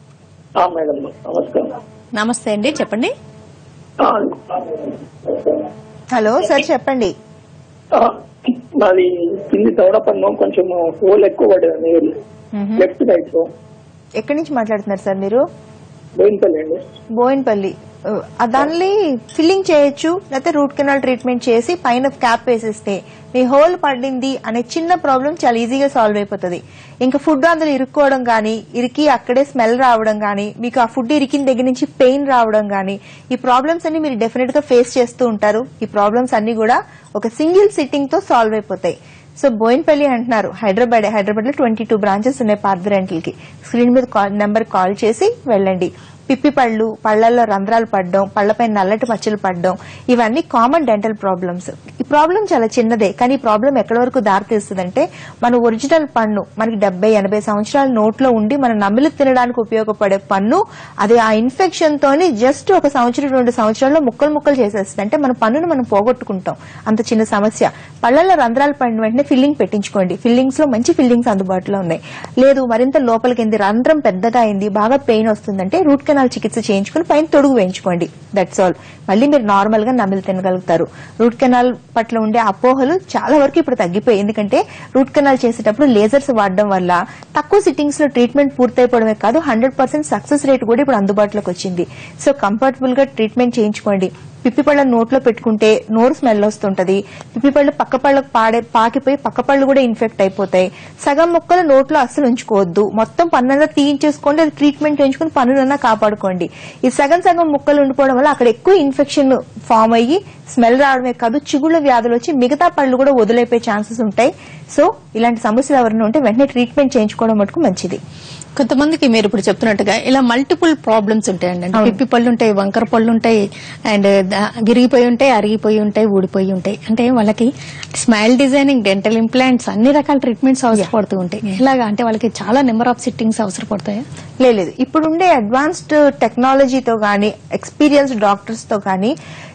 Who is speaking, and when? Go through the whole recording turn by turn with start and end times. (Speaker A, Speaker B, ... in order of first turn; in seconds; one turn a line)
Speaker A: 0.6-1.7
Speaker B: 2.2-3.1
Speaker A: 4.0-5.7
Speaker C: 6.1-7.1
Speaker A: 7.9-12.1
Speaker C: 12.5-12.9
Speaker A: 12.8-13.5
Speaker C: 14.2-15.4
Speaker A: 16.2-16.8
Speaker C: 17.2-118.0
Speaker B: 118.6-123.4
Speaker B: 123.9-134.0
Speaker C: 134.4-139.1